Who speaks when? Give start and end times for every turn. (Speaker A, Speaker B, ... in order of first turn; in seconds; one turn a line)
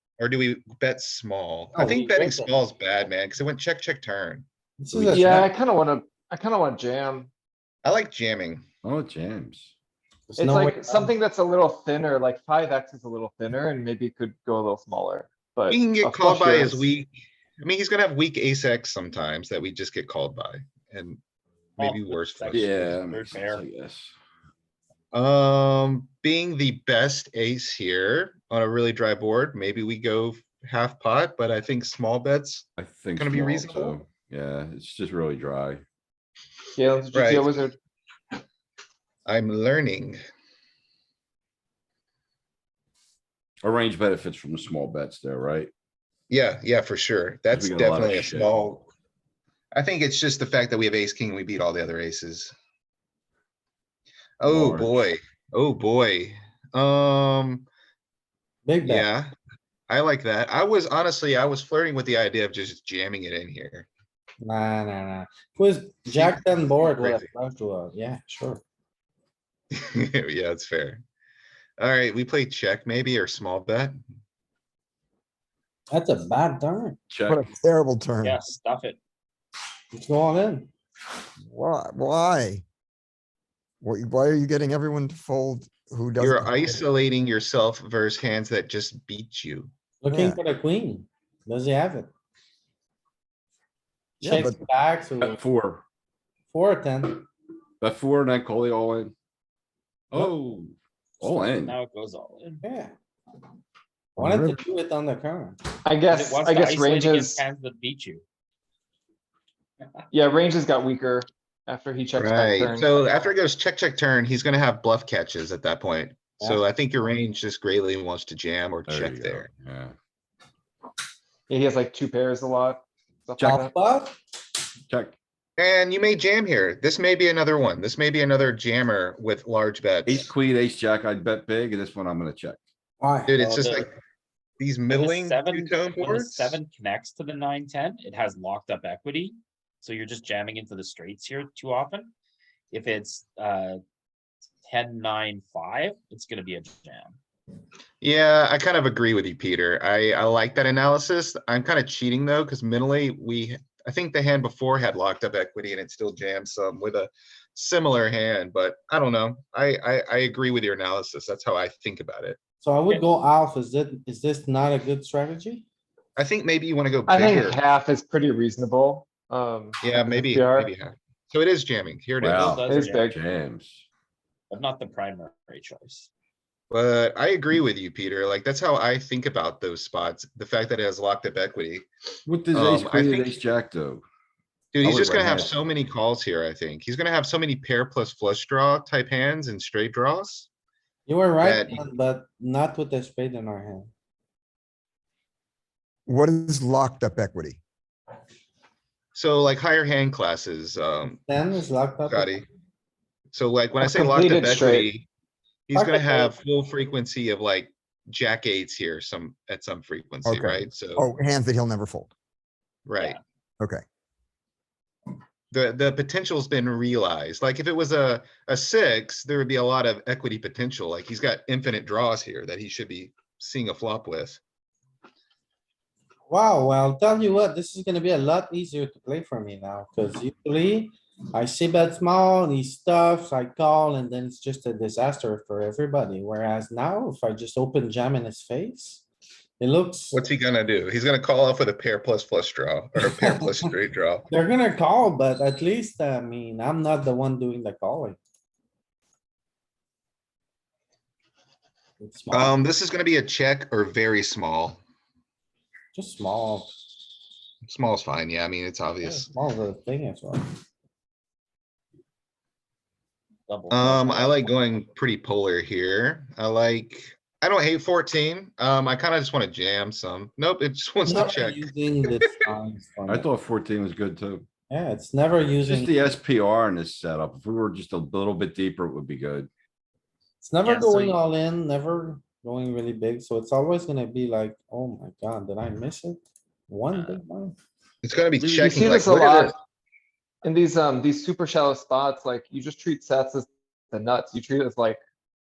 Speaker A: 0.2-4.5
Speaker B: 1.7-2.5
Speaker B: 4.8-5.5
Speaker C: 4.9-5.2
Speaker D: 5.1-7.3
Speaker A: 7.8-8.6
Speaker C: 8.8-9.7
Speaker B: 10.3-11.1
Speaker D: 10.4-16.9
Speaker A: 15.7-21.2
Speaker E: 21.8-23.6
Speaker A: 21.8-22.9
Speaker C: 22.5-24.1
Speaker A: 25.1-34.0
Speaker C: 32.8-35.8
Speaker D: 36.8-37.8
Speaker A: 37.1-37.6
Speaker A: 39.2-40.2
Speaker C: 43.6-45.7
Speaker A: 46.3-48.9
Speaker C: 47.5-48.8
Speaker A: 49.7-52.5
Speaker A: 54.4-57.7
Speaker C: 54.4-54.9
Speaker B: 58.7-59.1
Speaker A: 58.8-59.3
Speaker A: 59.9-63.9
Speaker B: 64.4-68.6
Speaker A: 66.1-67.3
Speaker A: 69.7-71.0
Speaker A: 71.8-74.0
Speaker B: 75.9-77.0
Speaker C: 77.1-77.5
Speaker F: 77.3-78.4
Speaker E: 78.2-79.0
Speaker B: 79.9-80.7
Speaker F: 81.4-82.6
Speaker F: 83.8-86.9
Speaker A: 86.2-89.7
Speaker B: 90.0-92.1
Speaker F: 90.1-90.4
Speaker C: 94.2-94.5
Speaker B: 94.2-95.4
Speaker F: 94.3-94.6
Speaker C: 95.2-95.8
Speaker B: 96.5-97.3
Speaker C: 97.8-99.1
Speaker C: 100.1-101.8
Speaker E: 101.7-102.6
Speaker B: 102.6-102.9
Speaker F: 104.2-104.6
Speaker B: 104.2-105.6
Speaker D: 105.8-107.4
Speaker E: 106.1-108.2
Speaker D: 110.1-113.0
Speaker A: 112.1-119.5
Speaker B: 116.4-116.7
Speaker C: 118.9-120.0
Speaker D: 121.5-123.7
Speaker B: 123.4-124.2
Speaker C: 124.9-125.2
Speaker A: 125.6-130.3
Speaker C: 130.1-132.6
Speaker B: 133.0-133.8
Speaker A: 133.3-133.9
Speaker A: 134.6-136.6
Speaker E: 134.9-142.1
Speaker E: 142.7-143.8
Speaker E: 144.7-147.2
Speaker A: 148.0-162.4
Speaker B: 162.6-165.7
Speaker A: 166.2-167.7
Speaker D: 167.1-170.7
Speaker A: 169.8-172.6
Speaker C: 172.2-173.8
Speaker E: 172.4-173.1
Speaker D: 172.7-173.2
Speaker E: 174.5-176.1
Speaker A: 176.7-181.9
Speaker C: 182.3-184.0
Speaker A: 182.5-183.4
Speaker A: 184.7-190.5
Speaker C: 184.8-185.5
Speaker B: 191.1-193.9
Speaker A: 191.4-191.8
Speaker F: 196.1-197.6
Speaker A: 199.1-201.2
Speaker B: 201.1-202.4
Speaker A: 202.1-202.5
Speaker A: 203.3-205.1
Speaker D: 203.8-204.9
Speaker A: 205.7-211.1
Speaker B: 205.7-206.4
Speaker F: 210.3-212.1
Speaker A: 212.9-213.2
Speaker A: 215.5-224.4
Speaker B: 226.3-239.0
Speaker B: 239.6-240.2
Speaker A: 240.1-244.3
Speaker B: 243.0-243.7
Speaker B: 244.3-248.2
Speaker B: 252.0-252.6
Speaker A: 252.3-254.8
Speaker B: 255.9-256.7
Speaker A: 257.6-259.3
Speaker B: 259.0-260.5
Speaker E: 263.5-264.5
Speaker A: 263.7-272.5
Speaker B: 271.0-273.3
Speaker C: 273.1-274.5
Speaker B: 274.7-276.1
Speaker C: 275.6-279.5
Speaker B: 280.4-287.6
Speaker E: 280.6-281.2
Speaker E: 286.9-287.2
Speaker A: 288.0-289.6
Speaker E: 288.4-289.0
Speaker D: 288.6-289.6
Speaker D: 290.4-295.0